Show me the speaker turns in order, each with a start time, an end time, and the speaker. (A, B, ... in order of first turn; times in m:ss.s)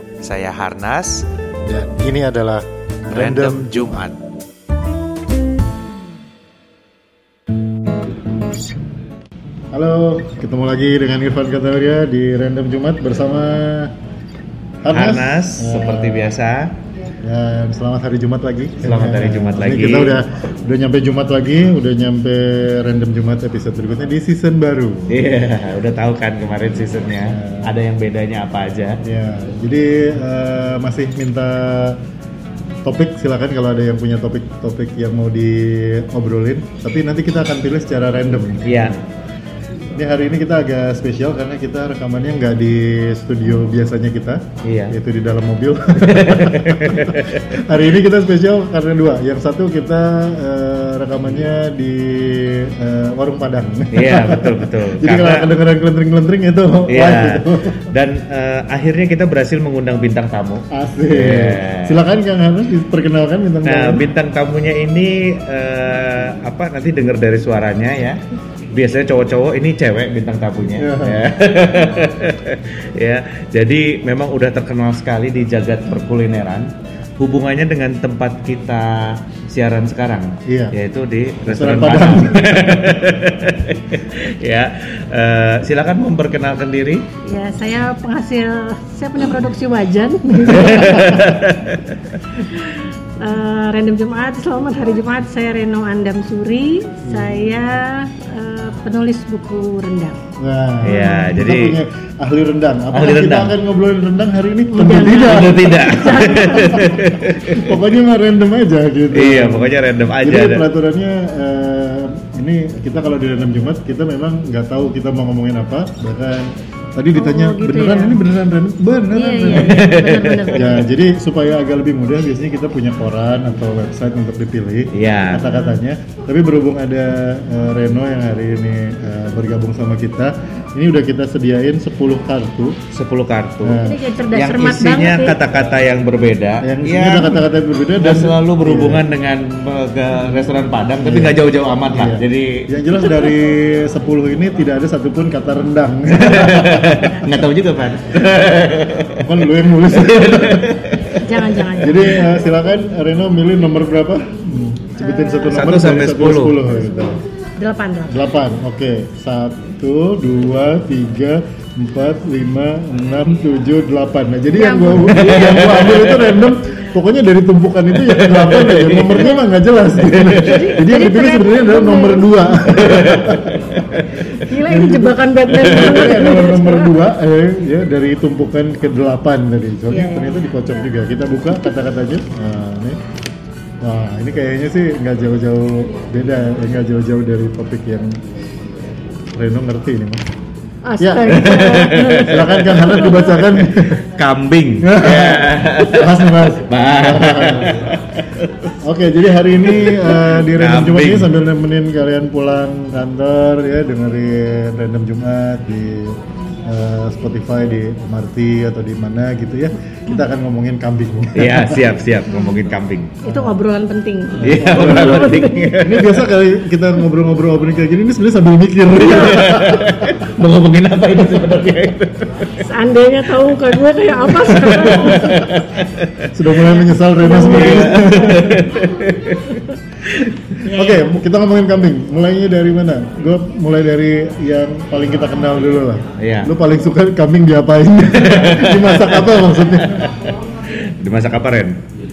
0:00.2-0:01.3 A
0:01.6-0:04.0 B
0:03.1-0:04.2 A
0:09.7-0:13.9 B
0:14.8-0:16.3 B
0:14.9-0:16.7 A
0:17.2-0:25.2 B
0:18.8-0:20.2 A
0:25.1-0:29.0 A
0:27.3-0:27.7 B
0:29.0-0:32.0 B
0:32.8-0:39.0 B
0:38.6-0:39.0 A
0:40.0-0:57.9 B
0:44.6-0:45.0 A
0:46.0-0:47.8 A
0:53.9-0:55.5 A
0:56.9-1:02.0 A
1:00.7-1:04.0 B
1:03.6-1:08.2 A
1:08.7-1:27.1 A
1:10.7-1:11.3 B
1:20.5-1:20.8 B
1:21.5-1:22.8 B
1:27.2-1:31.1 C
1:30.5-1:31.4 B
1:30.5-1:32.2 A
1:33.2-1:40.2 C
1:37.0-1:37.5 B
1:40.4-1:46.5 B
1:40.8-1:41.8 A
1:40.9-1:41.3 C
1:42.9-1:43.5 A
1:44.7-1:47.2 C
1:44.9-1:47.8 A
1:47.5-1:59.9 B
1:49.1-1:50.7 A
1:57.2-1:58.2 C
1:59.1-2:00.8 C
1:59.5-2:00.8 A
2:00.5-2:12.8 B
2:04.9-2:05.5 A
2:05.5-2:05.8 C
2:12.9-2:13.8 A
2:13.6-2:14.0 B
2:13.8-2:15.4 C
2:14.3-2:17.4 A
2:16.6-2:19.0 B
2:18.0-2:22.7 A
2:21.0-2:21.4 B
2:21.9-2:27.4 B
2:26.2-2:32.2 A
2:29.2-2:30.8 B
2:31.2-2:32.4 C
2:31.8-2:37.2 B
2:35.0-2:35.6 C
2:35.5-2:36.6 A
2:36.8-2:38.2 C
2:38.1-2:53.7 B
2:44.5-2:45.4 C
2:45.1-2:46.4 A
2:48.0-2:49.4 A
2:50.0-2:50.7 A
2:50.3-2:52.9 C
2:52.8-2:54.3 A
2:54.3-2:57.0 C
2:54.6-3:03.0 B
2:55.6-2:56.2 A
2:59.9-3:00.9 C
3:03.8-3:08.2 B
3:09.3-3:10.2 B
3:10.8-3:13.3 C
3:11.0-3:11.6 B
3:11.3-3:18.7 A
3:12.2-3:14.0 B
3:14.8-3:17.8 B
3:18.8-3:31.8 B
3:19.7-3:21.3 A
3:31.4-3:33.2 A
3:32.3-3:32.6 C
3:33.2-3:35.8 C
3:33.2-3:33.6 B
3:34.4-3:40.2 B
3:34.4-3:36.2 A
3:39.0-3:42.6 A
3:42.6-3:45.6 C
3:44.4-3:46.3 A
3:44.7-3:45.4 B
3:46.3-3:48.7 B
3:46.6-3:48.3 C
3:47.3-3:51.0 A
3:50.7-4:00.0 B
3:56.2-3:56.5 A
3:58.2-4:01.8 A